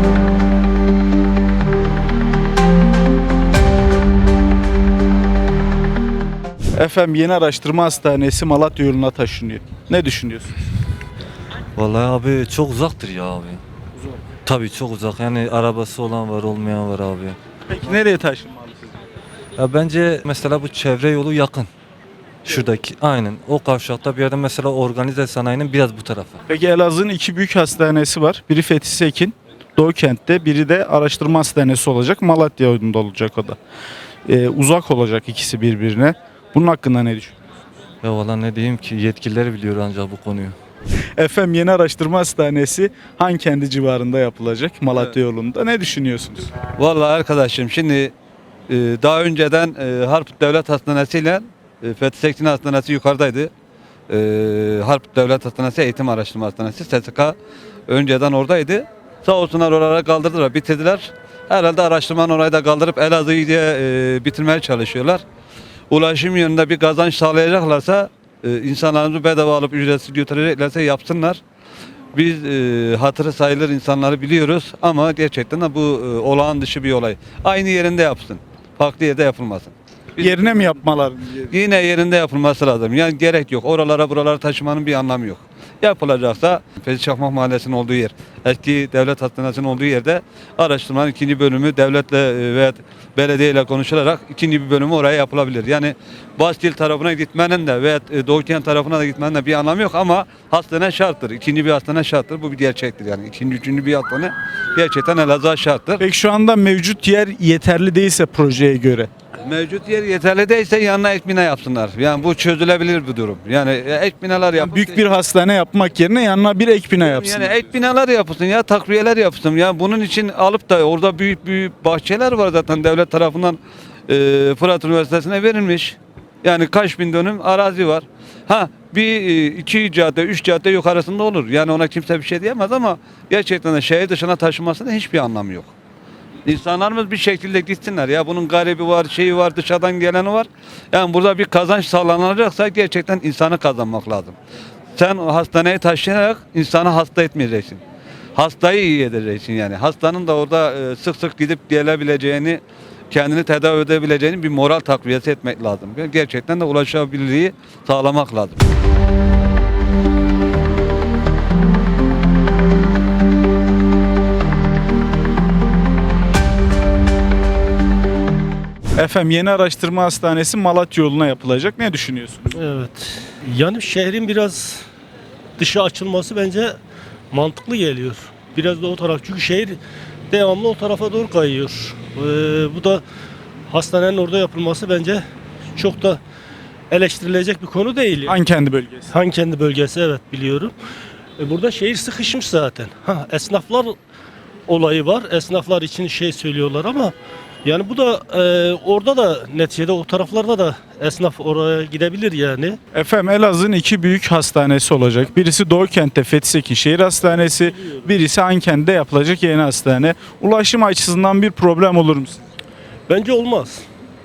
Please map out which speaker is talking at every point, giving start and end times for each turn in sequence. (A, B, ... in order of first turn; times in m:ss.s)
0:06.8-0:10.6 A
0:11.8-0:13.6 B
0:14.4-0:17.4 B
0:17.7-0:18.9 A
0:19.6-0:21.7 B
0:22.4-0:26.4 B
0:26.5-0:33.6 A
0:34.3-0:37.4 A
0:38.0-0:40.6 B
0:41.2-0:46.5 A
0:46.8-0:48.1 C
0:48.7-0:53.5 C
0:54.1-0:57.4 C
0:57.9-1:05.2 C
1:05.9-1:11.4 C
1:12.1-1:20.8 C
1:20.2-1:21.5 A
1:21.5-1:46.0 C
1:46.0-1:49.1 A
1:49.4-1:55.1 C
1:54.6-1:57.6 A
1:57.0-2:15.7 C
2:16.5-2:24.4 C
2:25.0-2:27.8 C
2:28.4-2:38.6 C
2:49.0-2:52.6 A
2:52.5-2:54.9 D
2:55.6-2:56.8 D
2:57.3-2:59.8 D
3:00.3-3:03.0 D
3:03.7-3:05.2 D
3:05.8-3:06.2 D
3:06.9-3:08.4 D
3:08.3-3:09.1 A
3:09.1-3:10.7 D
3:11.4-3:14.0 D
3:14.7-3:17.1 D
3:17.6-3:22.8 D
3:22.9-3:32.5 A
3:27.6-3:28.0 D
3:33.1-3:33.8 D